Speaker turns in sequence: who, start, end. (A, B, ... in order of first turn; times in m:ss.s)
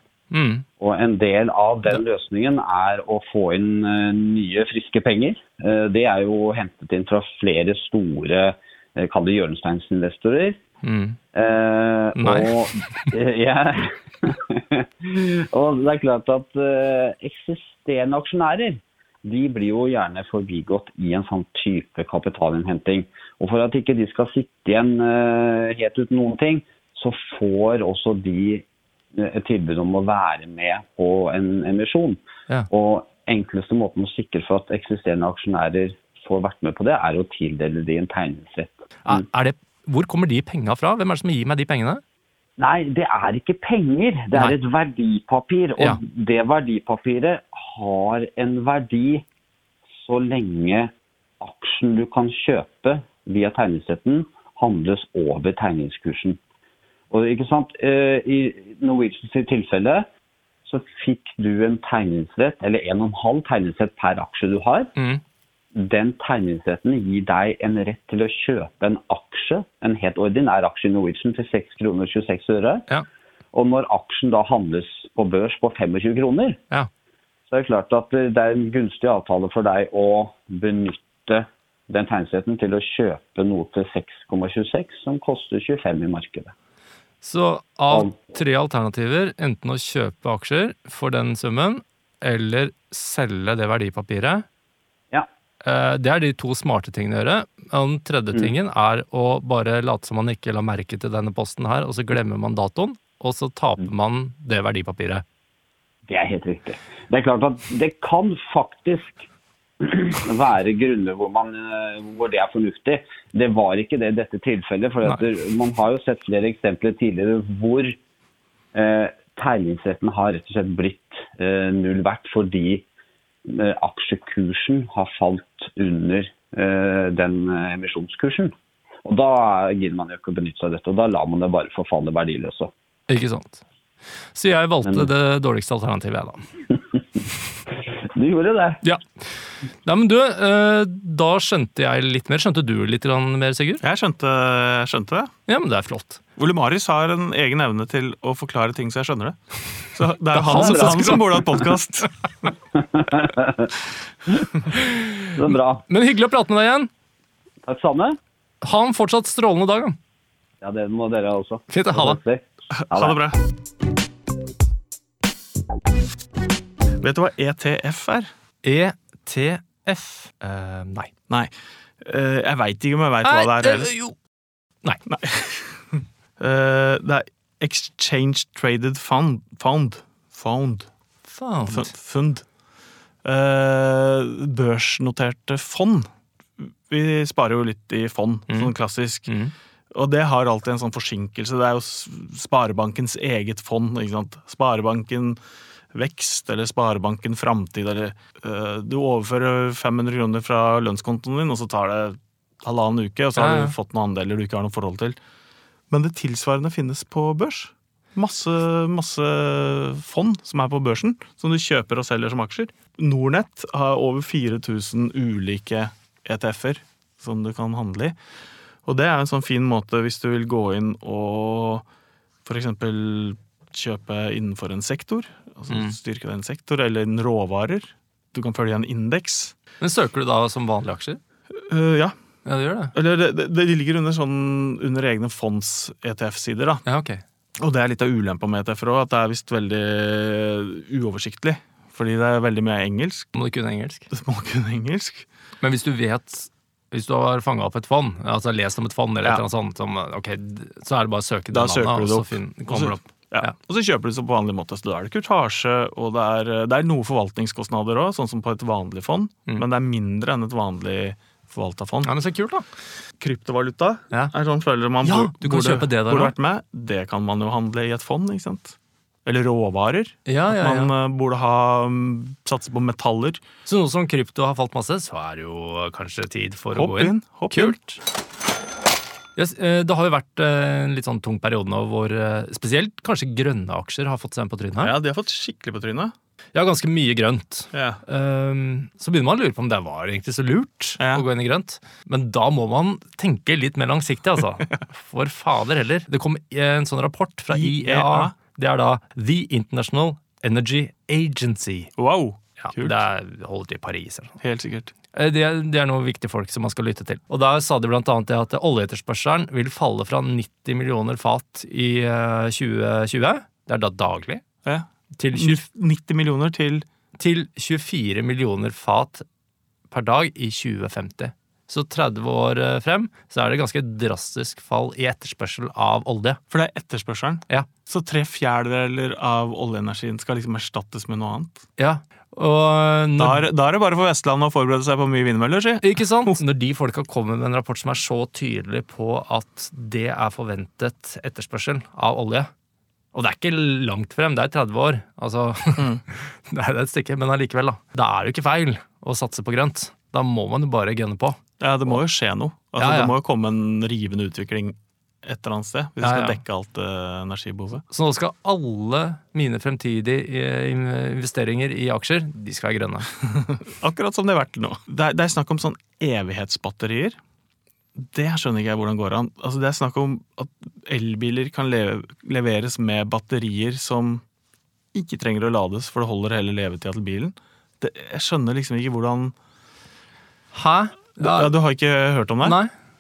0:00.3-0:00.6 A
0:00.8-0:10.6 B
0:10.8-0:11.2 A
0:11.3-0:32.2 B
0:12.2-0:13.1 A
0:32.7-0:39.2 B
0:39.0-0:42.0 A
0:42.6-0:49.2 B
0:50.0-0:56.4 B
0:57.1-1:00.1 B
1:00.7-1:04.9 B
1:05.0-1:05.2 A
1:05.8-1:12.9 B
1:13.5-1:16.6 B
1:17.5-1:26.5 B
1:27.2-1:34.4 A
1:35.6-1:45.2 A
1:46.1-1:49.3 B
1:49.8-1:58.0 B
1:58.7-2:02.8 B
2:03.4-2:08.5 B
2:09.0-2:12.7 B
2:13.1-2:13.6 A
2:14.3-2:16.4 A
2:18.1-2:18.8 B
2:19.8-2:23.8 A
2:23.8-2:25.3 C
2:25.5-2:26.2 A
2:26.4-2:32.5 C
2:30.3-2:31.5 A
2:30.6-2:31.4 B
2:32.8-2:33.7 B
2:34.3-2:34.6 B
2:34.7-2:36.9 A
2:35.4-2:35.8 B
2:37.6-2:38.2 B
2:38.6-2:40.0 A
2:40.6-2:43.2 B
2:41.7-2:42.2 A
2:42.7-2:43.4 C
2:47.0-2:48.3 C
2:48.6-2:51.1 A
2:51.3-2:53.9 C
2:53.2-2:54.2 A
2:55.1-3:00.9 C
3:01.3-3:01.9 A
3:01.7-3:02.4 C
3:03.2-3:09.3 C
3:09.3-3:09.5 A
3:09.9-3:15.4 C
3:15.9-3:25.2 C
3:23.4-3:23.8 A
3:25.9-3:38.2 C
3:38.8-3:41.9 C
3:42.4-3:49.6 C
3:45.7-3:46.0 A
3:49.8-3:51.2 A
3:51.5-3:52.2 C
3:52.4-3:53.0 A
3:52.9-3:56.8 C
3:56.9-3:57.2 A
3:57.6-4:03.3 C
4:03.3-4:04.1 A
4:04.1-4:05.2 C
4:05.6-4:13.6 A
4:11.5-4:22.1 C
4:22.0-4:22.7 A
4:23.2-4:33.4 C
4:25.0-4:26.3 A
4:30.3-4:30.9 A
4:33.6-4:38.0 A
4:36.8-4:37.8 C
4:39.4-4:45.0 A
4:44.8-4:46.1 C
4:46.5-5:01.9 A
4:47.7-4:48.0 C
4:51.0-4:51.2 C
4:57.5-4:58.4 C
5:02.0-5:03.0 C
5:02.6-5:04.4 A
5:04.4-5:04.9 C
5:05.1-5:14.4 A
5:14.6-5:16.8 C
5:15.2-5:15.6 A
5:17.2-5:19.2 A
5:19.9-5:26.4 A
5:26.5-5:31.6 C
5:31.8-5:33.5 A
5:33.2-5:36.4 C
5:35.8-5:42.5 A
5:43.1-5:51.4 A
5:45.8-5:46.0 C
5:51.6-5:57.8 C
5:52.8-5:53.2 A
5:56.0-5:56.4 A
5:57.9-6:03.1 A
6:03.3-6:07.2 C
6:08.0-6:14.2 C
6:14.9-6:19.4 C
6:20.5-6:21.5 A
6:21.2-6:22.6 C
6:22.4-6:22.7 A